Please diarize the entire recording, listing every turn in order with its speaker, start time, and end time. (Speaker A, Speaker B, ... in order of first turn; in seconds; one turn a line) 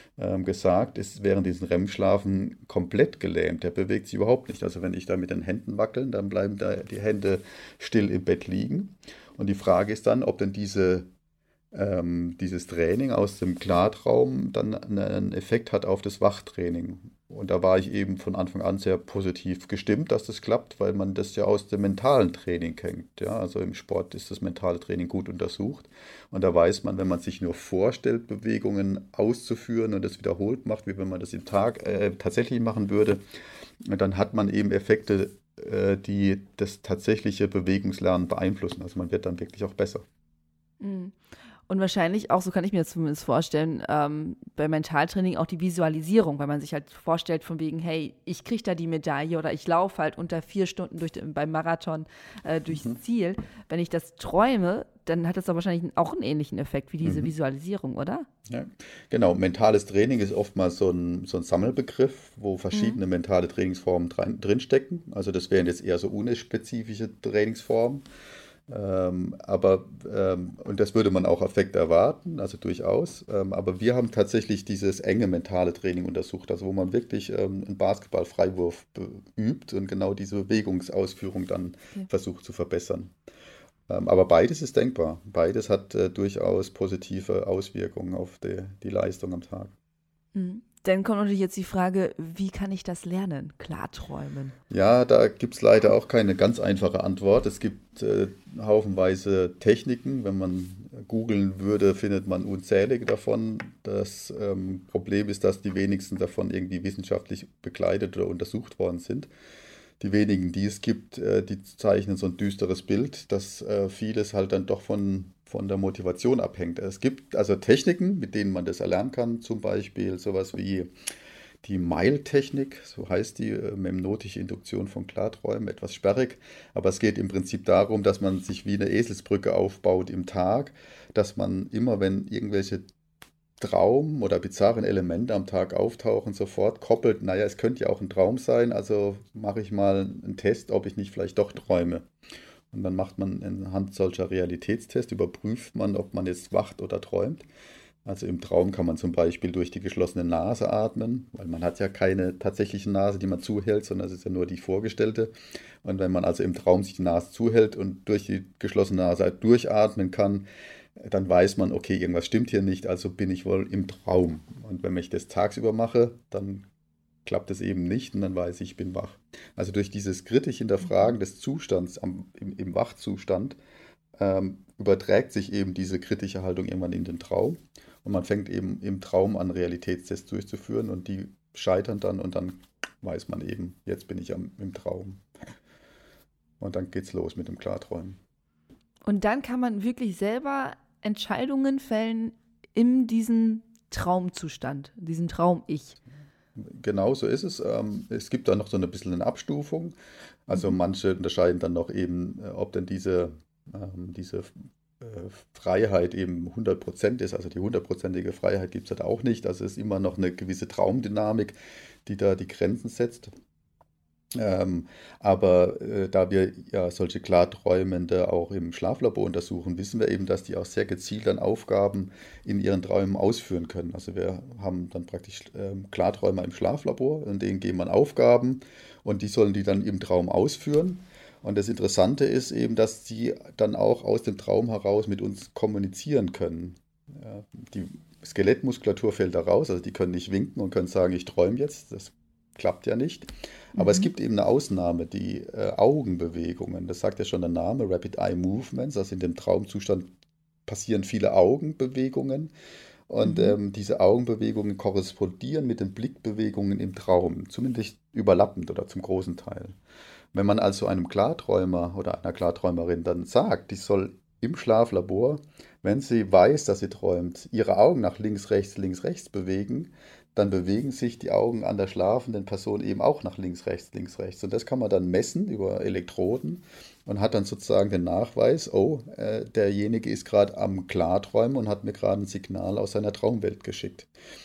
Speaker A: 0.2-11.1
Speaker A: 11.7-33.2
Speaker A: 33.8-40.0
Speaker B: 40.8-41.1
Speaker B: 41.7-58.3
Speaker A: 57.0-57.3
Speaker A: 58.5-68.0
Speaker B: 62.7-63.0
Speaker A: 68.7-83.1
Speaker A: 83.9-89.7
Speaker B: 90.3-94.5
Speaker A: 94.7-109.3
Speaker A: 110.0-120.9
Speaker A: 121.6-132.8
Speaker A: 133.6-142.1
Speaker A: 142.7-147.4
Speaker A: 148.0-155.3
Speaker A: 155.8-160.4
Speaker A: 161.0-166.7
Speaker A: 167.2-173.6
Speaker A: 174.2-185.2
Speaker A: 186.6-188.2
Speaker B: 189.0-196.0
Speaker A: 196.6-199.9
Speaker A: 200.5-213.3
Speaker A: 214.3-250.1
Speaker B: 243.8-244.1
Speaker A: 250.7-252.5
Speaker A: 253.1-259.8
Speaker B: 253.2-253.6
Speaker A: 260.3-284.1